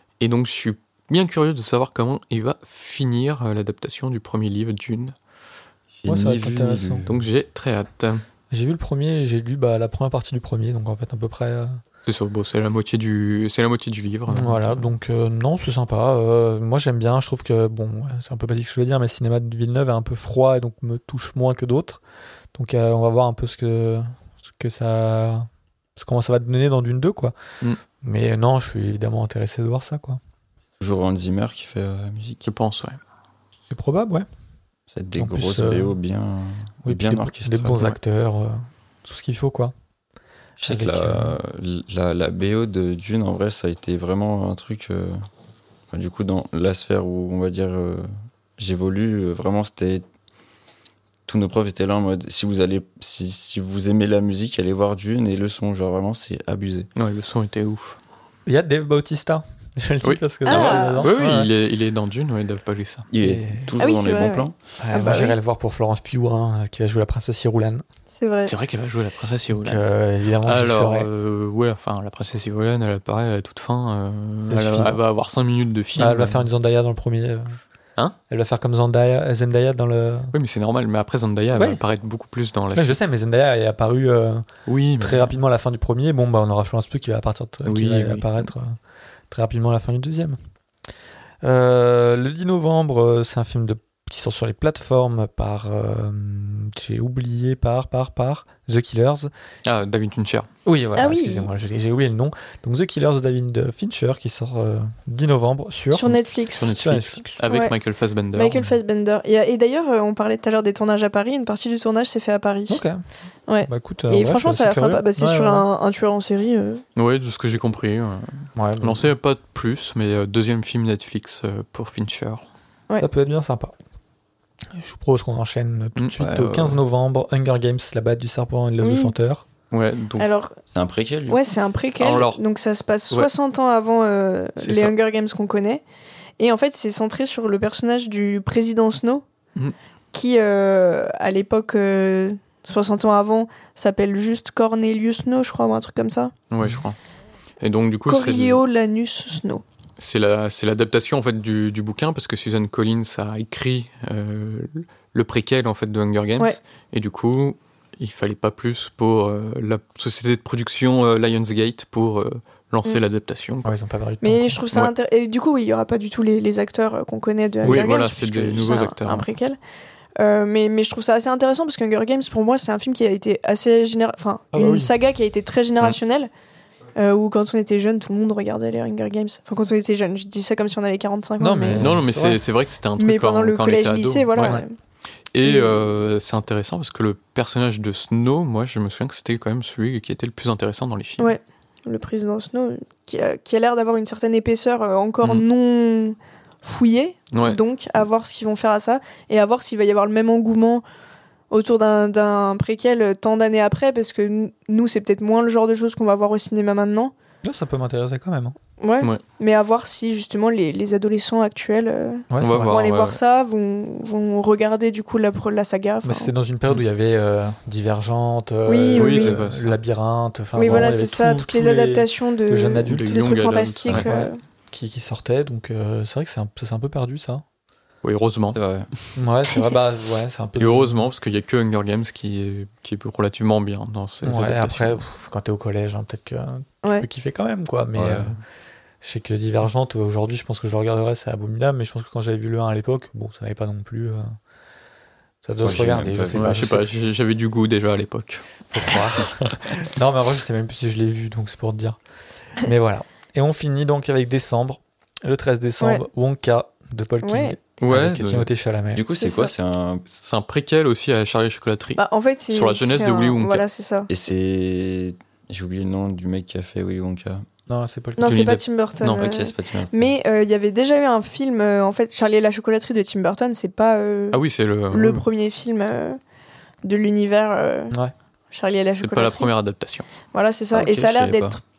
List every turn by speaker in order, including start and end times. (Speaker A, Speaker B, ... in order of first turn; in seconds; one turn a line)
Speaker A: 0.2-5.2
Speaker B: 6.0-7.3
Speaker C: 6.1-7.1
Speaker A: 7.1-8.2
Speaker C: 8.5-11.8
Speaker A: 12.1-14.8
Speaker C: 14.3-22.0
Speaker C: 22.5-27.4
Speaker C: 28.0-30.2
Speaker B: 30.8-32.5
Speaker A: 32.5-33.0
Speaker C: 33.7-34.3
Speaker B: 34.9-37.8
Speaker C: 35.2-36.0
Speaker C: 36.9-39.7
Speaker B: 40.6-45.2
Speaker C: 40.7-41.4
Speaker B: 45.9-50.0
Speaker B: 51.3-56.9
Speaker A: 57.0-58.0
Speaker C: 58.5-61.5
Speaker D: 60.5-61.1
Speaker B: 60.5-60.9
Speaker A: 61.0-63.1
Speaker B: 63.1-64.6
Speaker C: 63.2-63.7
Speaker D: 63.8-65.4
Speaker C: 64.8-67.8
Speaker D: 68.2-68.5
Speaker A: 68.5-69.8
Speaker C: 69.5-71.1
Speaker A: 70.4-76.5
Speaker C: 74.5-75.0
Speaker C: 76.0-77.6
Speaker C: 78.3-80.3
Speaker A: 80.3-83.0
Speaker C: 81.5-81.8
Speaker C: 82.8-84.5
Speaker A: 84.7-85.3
Speaker C: 85.0-88.8
Speaker A: 87.7-88.5
Speaker C: 89.3-90.4
Speaker C: 91.4-99.3
Speaker A: 99.7-100.5
Speaker C: 100.7-106.2
Speaker D: 101.0-101.5
Speaker D: 105.9-106.8
Speaker A: 106.6-108.6
Speaker C: 106.7-107.3
Speaker D: 107.4-107.7
Speaker D: 108.3-112.8
Speaker C: 112.7-113.0
Speaker D: 113.5-116.8
Speaker C: 113.7-115.7
Speaker A: 117.0-122.4
Speaker C: 118.6-119.1
Speaker C: 123.0-123.8
Speaker C: 124.8-129.4
Speaker A: 126.0-126.2
Speaker B: 126.2-126.8
Speaker D: 128.8-129.1
Speaker A: 129.7-130.3
Speaker D: 130.2-130.6
Speaker B: 130.7-131.4
Speaker D: 131.3-135.8
Speaker A: 132.0-132.4
Speaker A: 134.6-135.0
Speaker D: 136.4-139.2
Speaker D: 140.1-146.3
Speaker A: 146.5-147.0
Speaker A: 147.6-148.6
Speaker D: 148.1-149.6
Speaker A: 150.0-163.7
Speaker C: 163.6-164.6
Speaker D: 164.2-169.6
Speaker A: 167.6-169.3
Speaker D: 170.2-176.3
Speaker C: 174.5-174.9
Speaker D: 176.9-181.9
Speaker C: 181.4-182.4
Speaker A: 181.8-184.6
Speaker D: 183.0-184.8
Speaker C: 184.4-184.7
Speaker A: 185.3-191.3
Speaker D: 185.4-185.8
Speaker D: 191.2-200.8
Speaker A: 197.3-197.6
Speaker D: 201.5-207.1
Speaker C: 207.4-208.6
Speaker D: 208.8-216.3
Speaker C: 212.3-212.8
Speaker A: 212.4-213.2
Speaker C: 216.0-227.4
Speaker D: 218.7-219.4
Speaker A: 219.0-219.7
Speaker D: 220.6-224.4
Speaker A: 222.9-224.1
Speaker A: 228.0-228.6
Speaker B: 228.5-228.9
Speaker C: 229.2-231.1
Speaker A: 230.6-235.0
Speaker C: 234.2-238.4
Speaker B: 237.9-238.4
Speaker C: 239.0-244.4
Speaker C: 245.4-246.9
Speaker B: 245.6-246.8
Speaker A: 246.3-249.3
Speaker C: 248.7-252.0
Speaker C: 252.6-259.0
Speaker D: 257.2-257.6
Speaker A: 257.8-258.5
Speaker B: 258.9-260.1
Speaker D: 259.2-259.5
Speaker A: 260.1-262.0
Speaker D: 262.0-264.1
Speaker A: 262.5-263.6
Speaker B: 264.1-267.5
Speaker C: 267.7-268.4
Speaker D: 268.2-274.4
Speaker A: 268.2-269.3
Speaker B: 269.1-269.9
Speaker A: 274.3-275.3
Speaker D: 274.9-276.2
Speaker D: 276.8-278.0
Speaker D: 278.5-279.5
Speaker A: 279.0-280.1
Speaker D: 280.3-281.6
Speaker B: 280.7-281.6